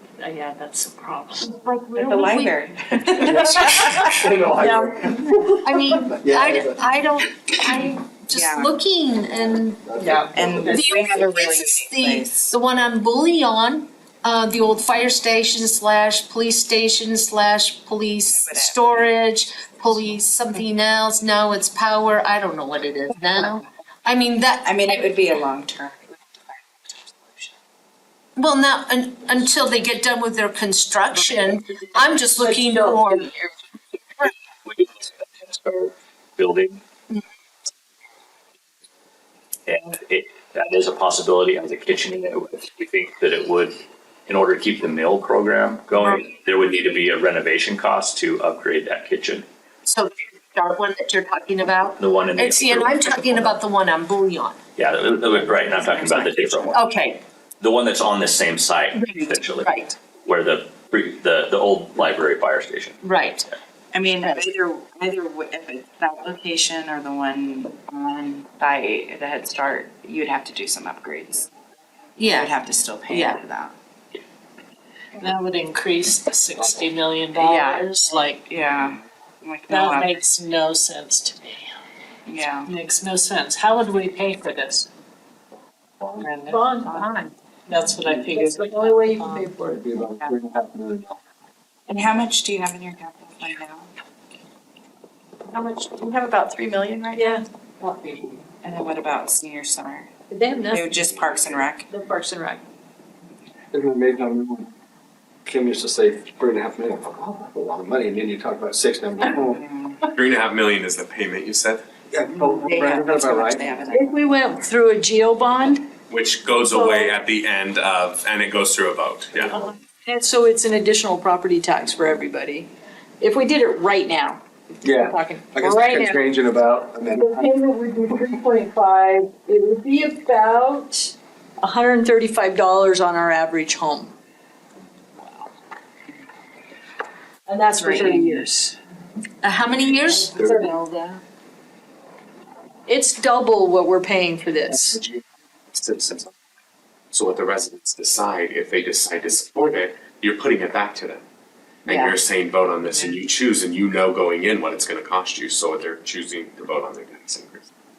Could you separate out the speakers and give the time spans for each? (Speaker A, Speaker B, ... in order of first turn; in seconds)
Speaker A: 0.2-1.5, 75.2-78.4, 79.7-81.5, 82.7-84.9, 86.2-86.6, 87.7-89.5
Speaker B: 1.5-2.6, 3.1-3.9, 5.6-25.1, 28.4-33.5, 49.8-54.6, 56.7-57.2, 59.0-59.9, 63.0-63.5, 72.2-72.5, 73.1-73.4, 139.4-141.2
Speaker C: 1.9-4.3, 8.3-8.7, 10.3-12.5, 18.3-19.1, 24.6-27.5, 55.7-56.6, 63.9-71.5, 72.2-73.7, 77.3-80.2, 82.2-82.7, 91.9-93.9, 95.5-97.3, 98.6-100.1, 100.7-101.8, 109.3-110.0, 112.3-114.3, 137.8-138.7, 151.9-152.2
Speaker D: 3.2-5.2, 6.1-6.7, 9.3-10.8, 89.8-91.2, 103.7-104.7, 105.5-109.6, 112.1-113.8, 119.4-119.7, 124.8-127.5, 144.7-145.2, 145.8-146.3
Speaker E: 32.4-33.3, 86.5-89.8, 97.1-98.4, 100.3-100.9, 101.9-102.6, 113.9-115.9, 116.7-117.2, 120.0-124.4, 125.0-126.2, 127.1-134.1, 137.5-138.5, 140.0-140.7, 142.9-145.0
Speaker F: 34.6-36.8, 39.7-49.4, 52.0-53.5, 54.8-56.8, 57.6-63.0
Speaker G: 100.9-101.6, 110.1-111.8, 116.1-119.7, 147.1-151.2, 151.8-157.7